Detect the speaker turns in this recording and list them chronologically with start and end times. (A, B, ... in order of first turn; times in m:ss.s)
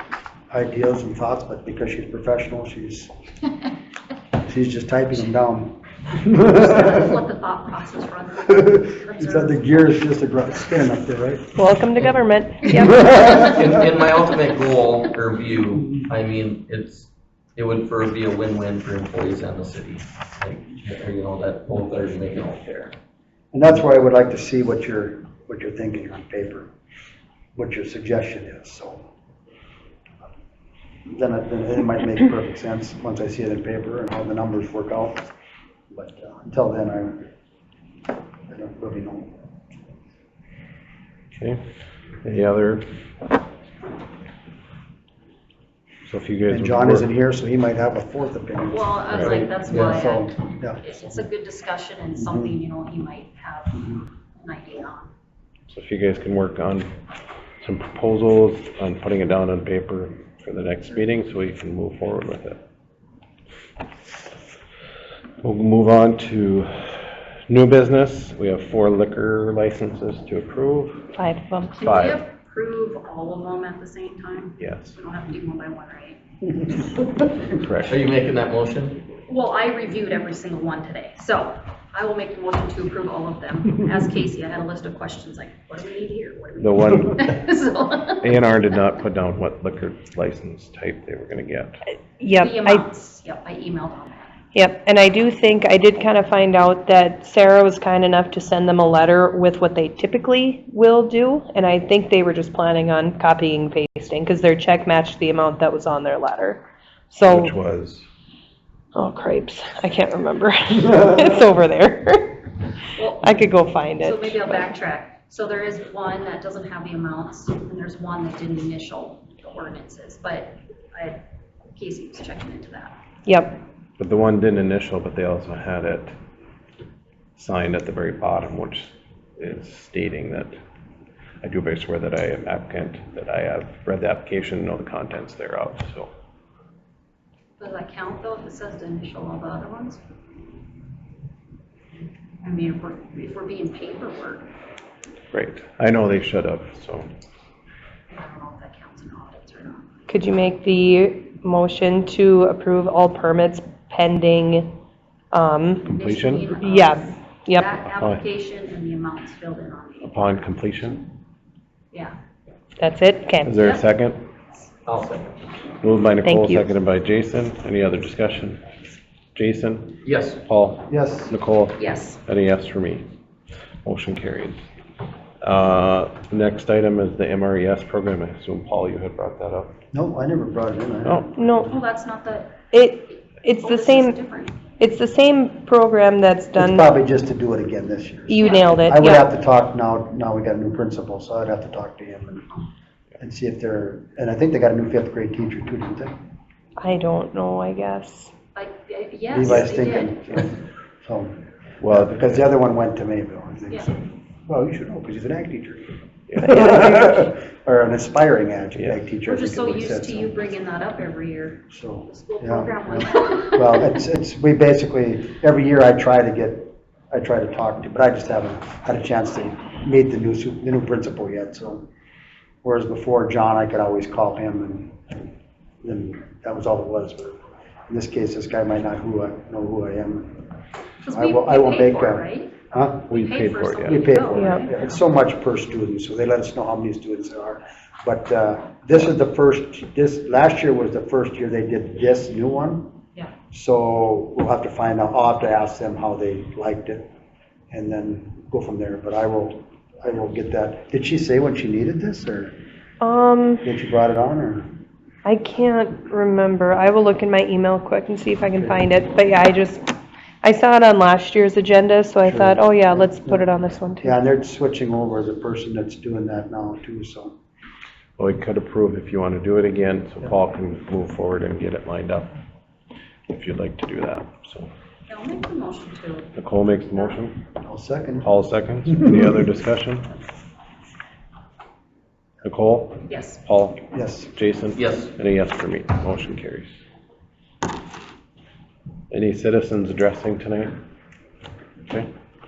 0:00.5-0:03.1 A
0:04.4-0:07.2 A
0:06.5-0:10.3 B
0:08.5-0:11.6 A
0:11.6-0:13.4 C
0:13.1-0:22.9 D
0:23.5-0:26.7 A
0:27.6-0:29.1 A
0:31.1-0:35.3 A
0:35.9-0:37.3 A
0:38.5-0:39.4 A
0:41.4-0:41.6 E
0:42.2-0:42.8 E
0:46.1-0:47.1 E
0:46.5-0:51.3 A
0:48.7-0:55.1 B
0:49.7-0:50.0 D
0:52.2-0:52.5 A
0:55.7-0:56.9 E
0:57.6-1:02.6 E
1:05.4-1:11.1 E
1:11.2-1:11.8 C
1:11.8-1:16.2 B
1:11.8-1:12.2 E
1:14.6-1:15.0 E
1:17.6-1:18.0 E
1:17.8-1:19.0 D
1:19.3-1:28.2 B
1:26.6-1:27.3 E
1:28.2-1:31.8 E
1:32.2-1:32.9 C
1:32.4-1:34.3 B
1:34.5-1:47.5 C
1:47.2-1:48.0 E
1:49.0-1:52.4 C
1:53.0-2:01.2 B
1:53.2-1:54.7 C
2:01.7-2:03.0 B
2:03.3-2:03.6 C
2:04.0-2:06.1 E
2:07.4-2:10.6 E
2:11.4-2:16.1 E
2:17.6-2:20.0 B
2:22.4-2:24.5 B
2:25.3-2:27.1 E
2:28.1-2:29.9 B
2:30.1-2:34.7 C
2:35.3-2:35.9 C
2:35.9-2:36.5 E
2:35.9-2:40.4 B
2:36.6-2:37.7 C
2:40.0-2:41.0 E
2:42.8-2:43.6 C
2:43.4-2:44.2 E
2:44.9-2:45.3 D
2:45.8-2:48.6 E
2:46.2-2:46.7 C
2:49.4-2:53.1 E
2:50.0-2:50.4 D
2:50.9-2:51.4 A
2:51.8-2:52.2 B
2:53.8-2:54.6 E
2:55.4-2:59.7 E
2:59.9-3:01.6 A
3:01.4-3:01.8 C
3:01.6-3:04.6 B
3:02.7-3:04.2 C
3:04.7-3:06.9 C
3:06.6-3:12.5 A
3:08.3-3:09.3 C
3:08.4-3:08.7 B
3:13.2-3:16.2 A
3:16.8-3:18.3 C
3:18.6-3:20.2 B
3:19.3-3:25.9 A
3:21.8-3:22.5 E
3:26.3-3:26.7 E
3:26.4-3:30.4 A
3:26.4-3:27.2 C
3:28.8-3:29.0 E
3:29.3-3:33.8 B
3:31.7-3:41.9 A
3:42.6-3:45.0 A
3:45.8-3:50.4 A
3:51.0-3:54.9 B
3:51.1-3:53.1 A
3:53.1-3:54.3 E
3:53.9-4:02.9 A
3:54.4-3:54.6 C
4:03.5-4:07.1 A
4:07.7-4:12.6 A
4:13.0-4:13.6 C
4:13.6-4:14.7 A
4:15.2-4:24.2 C
4:22.3-4:23.4 A
4:24.0-4:27.3 A
4:28.2-4:32.4 E
4:33.3-4:34.7 E
4:35.1-4:36.4 B
4:36.4-4:37.4 E
4:37.6-4:38.3 A
4:38.2-4:40.1 E
4:38.9-4:39.3 A
4:42.4-4:43.8 E
4:43.1-4:43.4 B
4:43.9-4:44.3 A
4:44.3-4:46.7 E
4:44.8-4:45.1 D
4:49.1-4:50.8 E